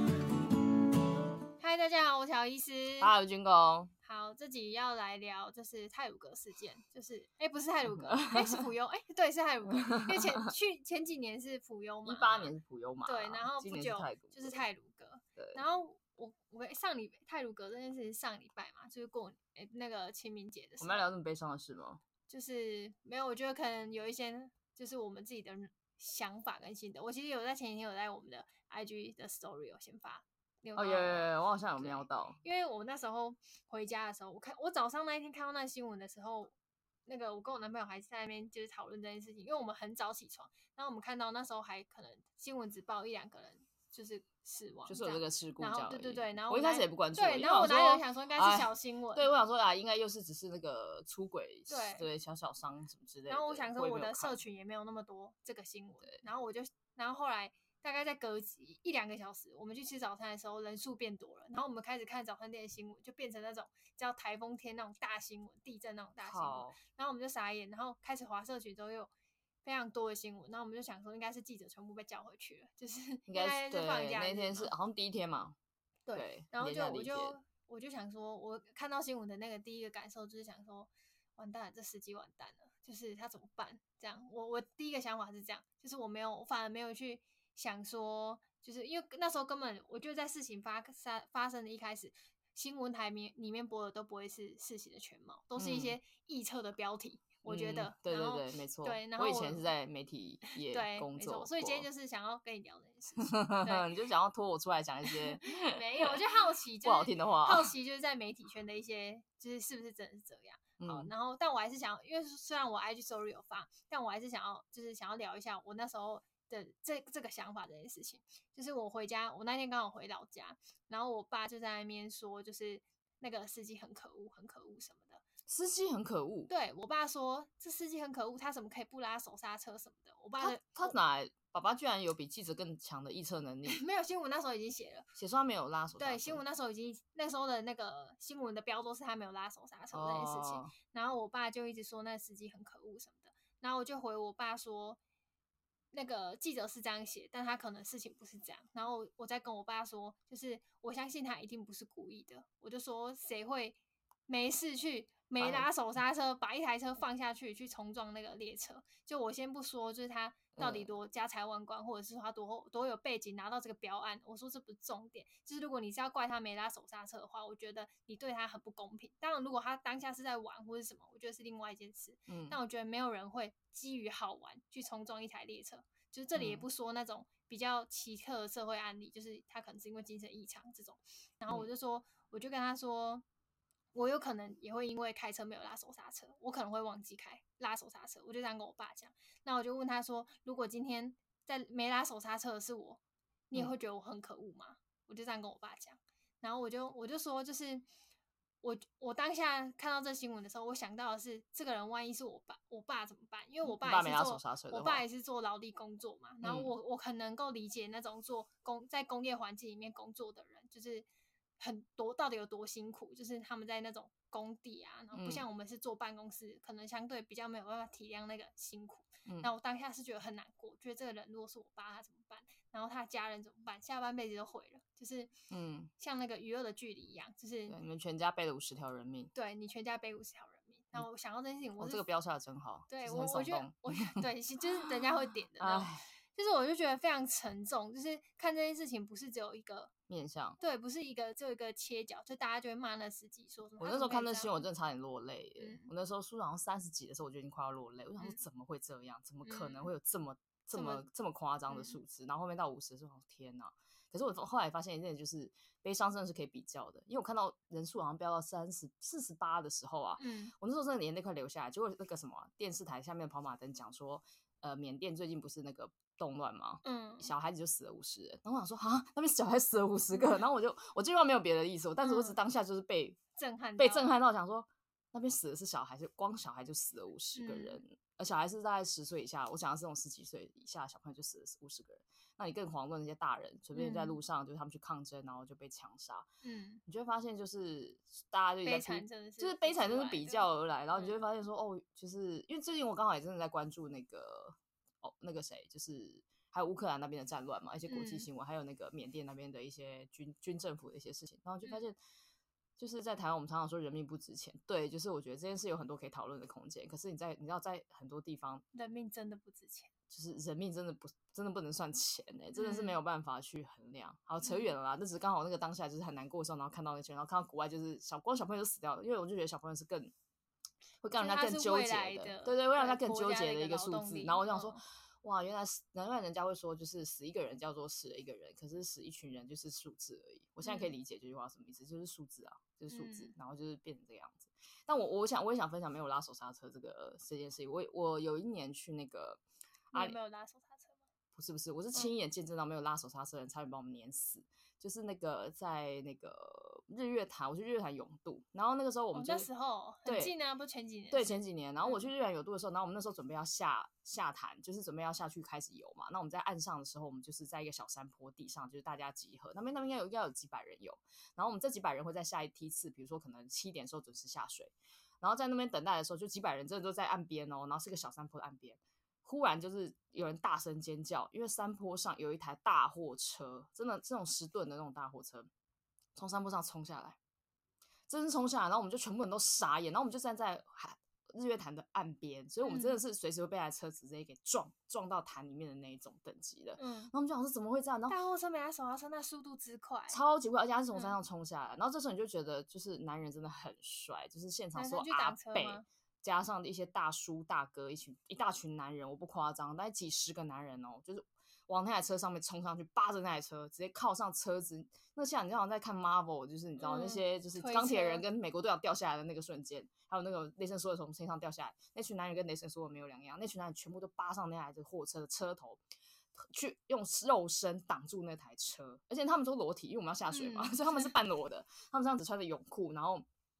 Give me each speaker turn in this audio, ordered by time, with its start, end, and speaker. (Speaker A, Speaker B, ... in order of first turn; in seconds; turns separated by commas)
Speaker A: 1.6-3.1, Speaker B: 3.0-3.9, Speaker A: 4.0-12.5, Speaker B: 7.9-8.6, Speaker B: 9.7-10.4, Speaker B: 12.1-14.6, Speaker A: 13.1-21.1, Speaker B: 15.4-15.6, Speaker B: 20.8-22.0, Speaker A: 22.3-36.5, Speaker B: 30.8-32.4, Speaker A: 37.1-49.3, Speaker B: 44.9-54.4, Speaker A: 51.7-52.1, Speaker A: 53.3-69.1, Speaker B: 66.2-66.8, Speaker A: 69.6-74.7, Speaker B: 73.3-75.6, Speaker A: 76.1-99.7, Speaker B: 76.2-77.4, Speaker B: 95.6-96.0, Speaker B: 97.5-101.9, Speaker A: 100.7-103.9, Speaker B: 103.2-106.2, Speaker A: 105.1-125.2, Speaker B: 106.8-107.7, Speaker B: 110.8-111.1, Speaker B: 125.5-126.5, Speaker A: 126.5-130.9, Speaker B: 130.4-133.8, Speaker A: 133.7-135.1, Speaker B: 135.2-136.4, Speaker A: 136.0-145.0, Speaker B: 139.9-140.7, Speaker A: 145.9-153.8, Speaker A: 154.3-183.2, Speaker B: 155.4-155.7, Speaker B: 160.6-160.9, Speaker B: 172.3-172.6, Speaker B: 176.3-176.7, Speaker A: 183.9-197.8, Speaker A: 198.6-211.1, Speaker B: 203.6-205.0, Speaker B: 206.4-206.7, Speaker A: 211.6-225.3, Speaker B: 215.1-215.4, Speaker B: 225.5-225.9, Speaker A: 226.0-227.8, Speaker B: 227.7-229.3, Speaker A: 229.3-232.0, Speaker B: 231.8-234.2, Speaker A: 232.9-239.9, Speaker B: 235.6-236.1, Speaker B: 240.1-240.6, Speaker A: 240.6-244.6, Speaker B: 243.8-273.2, Speaker A: 245.6-245.9, Speaker A: 249.4-249.9, Speaker A: 250.7-251.0, Speaker A: 251.7-252.0, Speaker A: 260.2-260.5, Speaker A: 266.8-267.3, Speaker A: 272.0-272.4, Speaker A: 273.4-274.1, Speaker B: 273.8-286.3, Speaker A: 277.4-277.8, Speaker A: 283.7-284.2, Speaker A: 286.4-286.8, Speaker B: 286.9-302.0, Speaker A: 288.6-291.2, Speaker A: 297.9-298.3, Speaker B: 302.8-308.6, Speaker A: 308.7-309.9, Speaker B: 310.1-320.1, Speaker A: 312.6-313.0, Speaker A: 314.4-314.7, Speaker B: 321.0-339.4, Speaker A: 321.2-324.8, Speaker A: 330.6-330.9, Speaker A: 332.9-333.3, Speaker A: 339.9-341.0, Speaker B: 341.3-349.5, Speaker A: 349.1-352.1, Speaker B: 350.1-350.3, Speaker B: 351.1-375.5, Speaker B: 376.1-377.2, Speaker B: 378.1-388.2, Speaker A: 382.6-383.0, Speaker A: 386.8-387.1, Speaker A: 388.1-390.2, Speaker B: 390.1-415.8, Speaker A: 394.8-395.9, Speaker A: 406.8-408.2, Speaker B: 416.4-423.3, Speaker A: 420.3-421.1